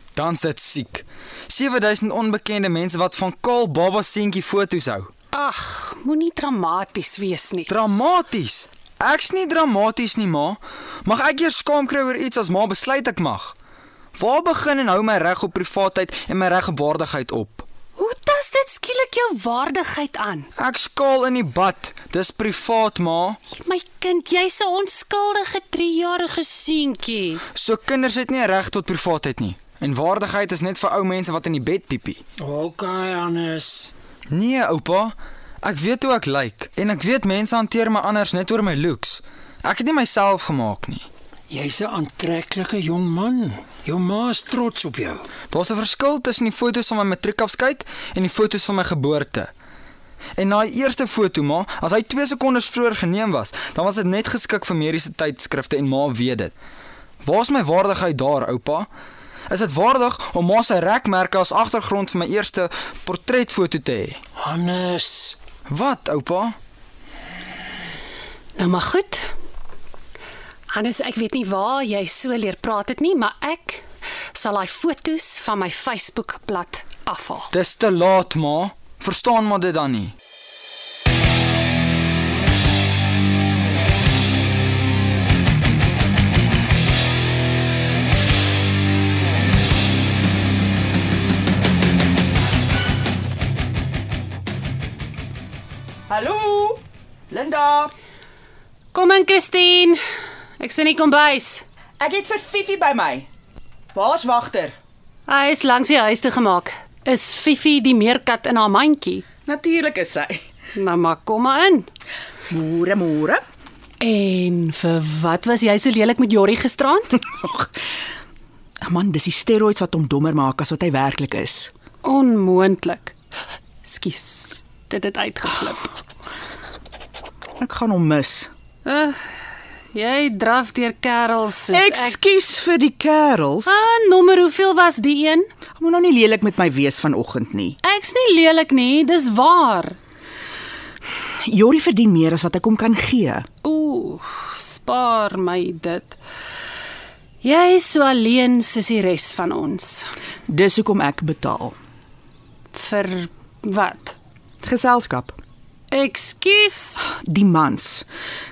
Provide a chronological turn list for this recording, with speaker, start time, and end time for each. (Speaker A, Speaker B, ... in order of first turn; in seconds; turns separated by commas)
Speaker A: 0.1-5.1, Speaker B: 5.3-7.7, Speaker A: 7.7-13.5, Speaker A: 14.2-17.6, Speaker B: 18.0-20.5, Speaker A: 20.6-23.4, Speaker B: 23.5-27.4, Speaker A: 27.5-32.2, Speaker C: 32.4-33.9, Speaker A: 34.3-41.1, Speaker C: 41.5-45.3, Speaker A: 45.5-49.5, Speaker A: 50.4-56.5, Speaker A: 57.2-58.9, Speaker A: 59.5-64.2, Speaker C: 64.4-65.3, Speaker A: 65.7-66.5, Speaker B: 68.6-69.3, Speaker B: 70.7-73.8, Speaker B: 74.3-77.5, Speaker A: 77.5-80.1, Speaker D: 96.1-97.9, Speaker B: 98.9-100.0, Speaker B: 100.6-101.6, Speaker D: 102.0-103.3, Speaker D: 103.9-104.8, Speaker B: 105.3-109.2, Speaker D: 109.5-110.4, Speaker B: 110.7-111.9, Speaker D: 112.5-113.4, Speaker B: 114.0-117.2, Speaker D: 117.4-117.7, Speaker D: 118.8-121.7, Speaker B: 122.0-123.1, Speaker B: 123.8-126.0, Speaker D: 127.6-128.5, Speaker B: 128.8-129.2, Speaker B: 129.9-132.2, Speaker D: 131.7-133.8, Speaker B: 133.7-135.5, Speaker D: 135.8-137.8, Speaker B: 137.8-140.0, Speaker D: 141.4-143.5, Speaker B: 143.6-146.2, Speaker B: 147.4-150.1, Speaker D: 150.5-151.8, Speaker B: 152.7-154.2, Speaker D: 154.6-155.4, Speaker B: 155.9-157.0, Speaker D: 157.0-158.1